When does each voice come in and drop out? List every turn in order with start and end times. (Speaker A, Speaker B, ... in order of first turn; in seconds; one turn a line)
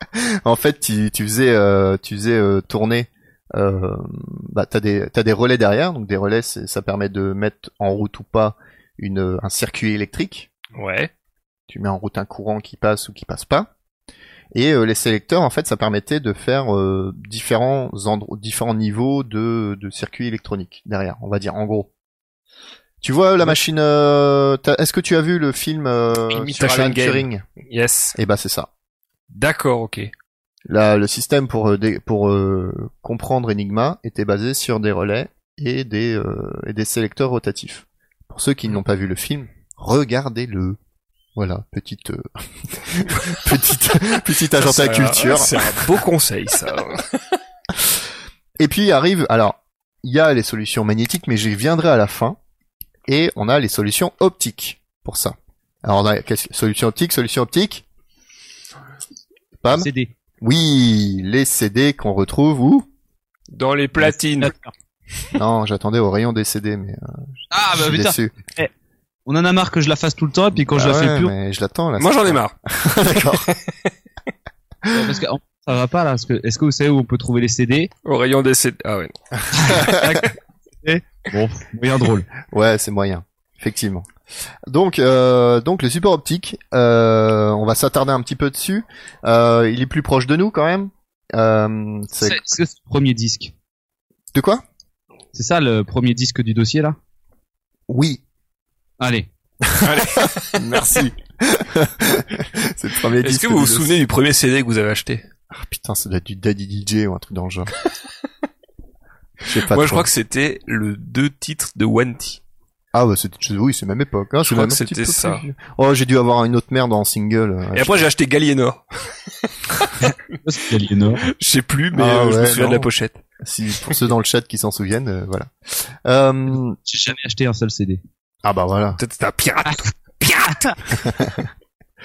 Speaker A: 0.1-10.5
Speaker B: 10.7-11.1
Speaker A: 11.7-13.7
Speaker A: 14.5-21.9
Speaker A: 23.0-27.4
Speaker B: 26.3-28.1
Speaker A: 28.1-28.7
Speaker B: 29.3-30.1
Speaker A: 30.7-40.8
Speaker A: 41.4-46.0
Speaker B: 44.6-47.4
Speaker A: 48.6-52.4
Speaker A: 53.1-57.8
Speaker A: 59.6-59.9
Speaker C: 59.7-60.1
Speaker A: 60.4-62.9
Speaker B: 63.5-64.5
Speaker C: 64.0-64.7
Speaker A: 65.3-68.3
Speaker C: 67.5-68.7
Speaker C: 69.2-71.3
Speaker A: 70.7-73.5
Speaker B: 72.0-73.7
Speaker A: 74.8-75.2
Speaker C: 74.9-77.9
Speaker B: 78.0-79.9
Speaker C: 79.5-82.3
Speaker A: 79.6-80.2
Speaker A: 82.5-84.0
Speaker A: 84.7-92.4
Speaker C: 92.2-93.5
Speaker A: 94.3-94.6
Speaker C: 95.3-97.0
Speaker A: 97.9-98.2
Speaker C: 99.0-99.3
Speaker A: 99.7-103.9
Speaker B: 99.8-100.7
Speaker B: 103.2-105.2
Speaker A: 105.5-107.7
Speaker A: 109.4-110.1
Speaker B: 109.5-112.4
Speaker A: 112.9-118.1
Speaker B: 114.4-115.4
Speaker B: 117.7-120.0
Speaker C: 120.0-121.3
Speaker B: 121.2-123.2
Speaker A: 121.9-122.9
Speaker A: 123.4-126.8
Speaker C: 126.8-128.0
Speaker A: 128.4-129.0
Speaker B: 129.0-130.8
Speaker A: 131.0-131.5